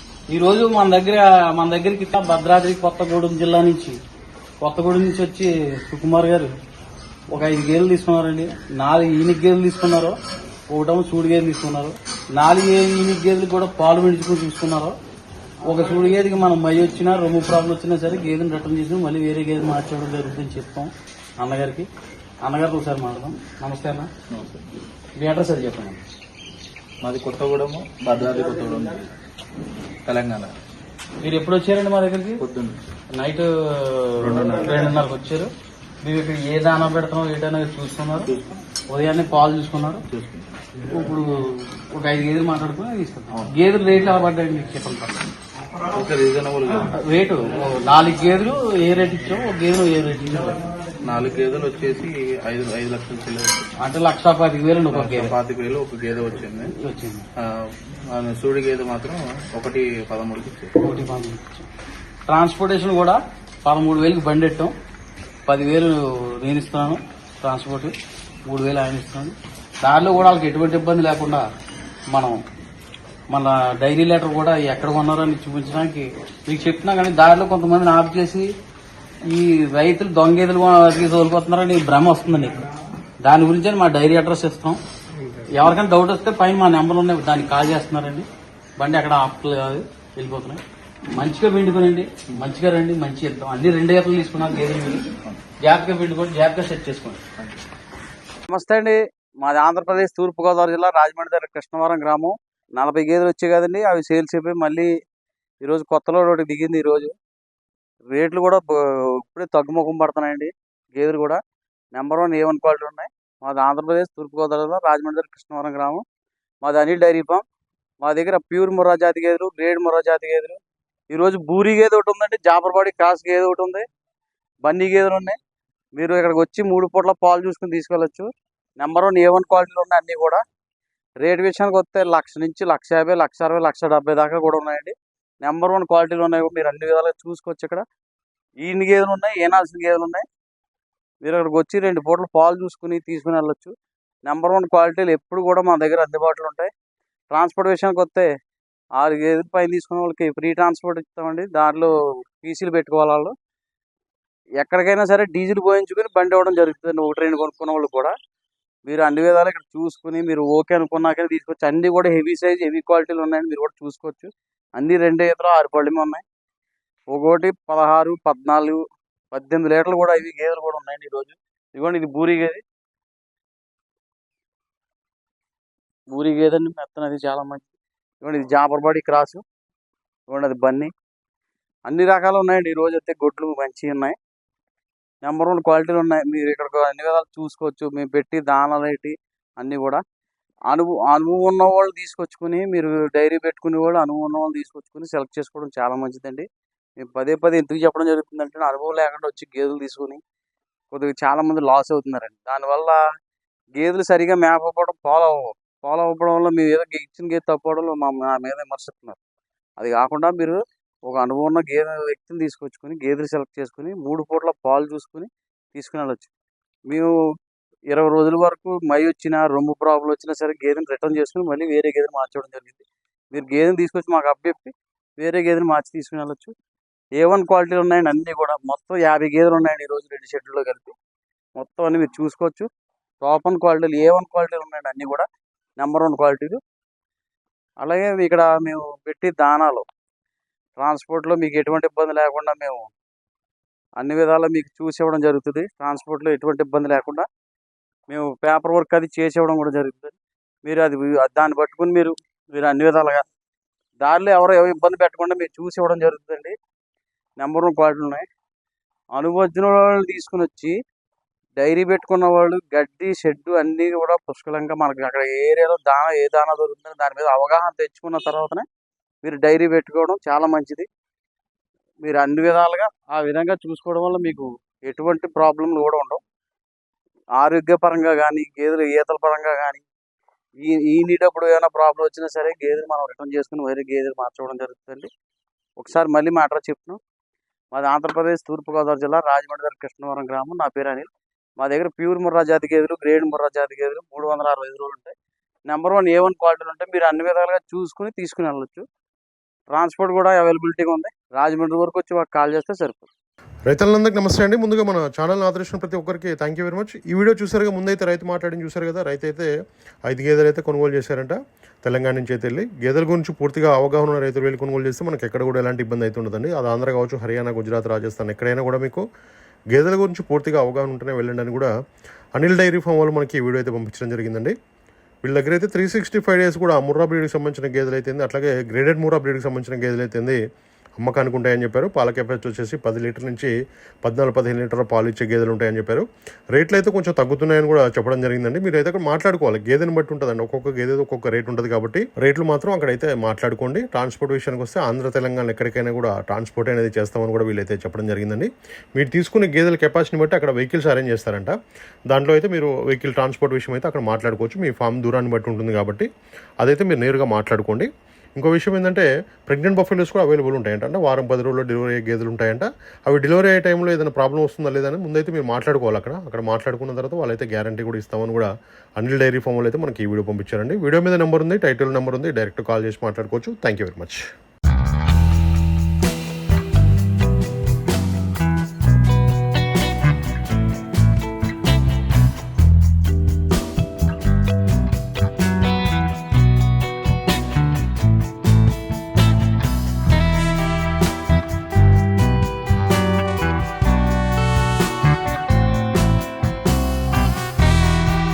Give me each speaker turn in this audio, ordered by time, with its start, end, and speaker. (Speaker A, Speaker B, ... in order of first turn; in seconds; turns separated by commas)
Speaker A: 0.3-4.0, Speaker A: 4.6-6.5, Speaker A: 7.3-10.2, Speaker A: 10.7-14.9, Speaker A: 15.6-21.9, Speaker A: 22.4-24.1, Speaker B: 24.3-24.7, Speaker A: 25.2-26.0, Speaker B: 27.0-29.1, Speaker B: 30.1-30.5, Speaker A: 31.2-32.4, Speaker B: 32.4-32.8, Speaker A: 33.1-35.5, Speaker B: 34.2-34.8, Speaker A: 36.0-38.3, Speaker B: 38.3-38.6, Speaker A: 38.9-40.0, Speaker B: 40.1-40.5, Speaker A: 40.9-45.3, Speaker B: 45.9-46.9, Speaker A: 46.9-50.6, Speaker B: 51.0-53.7, Speaker A: 53.8-55.3, Speaker B: 54.9-56.7, Speaker A: 56.8-57.3, Speaker B: 58.1-60.7, Speaker A: 60.8-61.7, Speaker A: 62.3-64.7, Speaker A: 65.5-68.0, Speaker A: 68.5-71.5, Speaker A: 72.1-72.4, Speaker A: 73.3-78.5, Speaker A: 79.2-82.6, Speaker A: 83.2-84.8, Speaker A: 85.5-88.3, Speaker A: 88.8-90.6, Speaker A: 91.2-97.2, Speaker A: 98.5-104.9, Speaker A: 105.6-107.1, Speaker A: 108.1-111.4, Speaker A: 111.9-116.0, Speaker A: 116.6-117.4, Speaker A: 118.0-120.6, Speaker A: 121.1-123.8, Speaker A: 124.6-125.4, Speaker A: 126.0-130.4, Speaker A: 131.2-137.8, Speaker A: 138.6-140.2, Speaker A: 141.2-143.7, Speaker A: 144.2-146.7, Speaker A: 147.3-148.3, Speaker A: 149.0-153.3, Speaker A: 154.6-158.1, Speaker A: 158.9-166.2, Speaker A: 167.1-168.8, Speaker A: 169.3-172.6, Speaker A: 176.1-177.7, Speaker A: 178.2-179.4, Speaker A: 180.3-180.9, Speaker A: 181.9-184.2, Speaker A: 185.2-190.0, Speaker A: 190.7-196.5, Speaker A: 197.0-200.2, Speaker A: 200.9-203.0, Speaker A: 203.8-209.2, Speaker A: 209.8-216.3, Speaker A: 216.9-217.2, Speaker A: 217.9-226.5, Speaker A: 227.2-230.9, Speaker A: 231.6-232.7, Speaker A: 233.2-235.3, Speaker A: 235.8-236.6, Speaker A: 237.8-239.9, Speaker A: 240.8-242.9, Speaker A: 244.0-247.3, Speaker A: 248.1-253.2, Speaker A: 254.0-256.6, Speaker A: 257.4-258.2, Speaker A: 259.1-260.8, Speaker A: 261.6-268.7, Speaker A: 269.2-270.9, Speaker A: 272.0-276.2, Speaker A: 277.4-279.9, Speaker A: 280.6-285.1, Speaker A: 285.8-287.0, Speaker A: 287.7-295.1, Speaker A: 295.7-298.9, Speaker A: 299.7-303.1, Speaker C: 303.7-309.5, Speaker C: 310.1-319.0, Speaker C: 319.7-321.7, Speaker C: 322.4-324.6, Speaker C: 325.2-330.4, Speaker C: 331.0-333.5, Speaker C: 334.0-351.5, Speaker C: 352.1-356.1, Speaker C: 356.6-374.2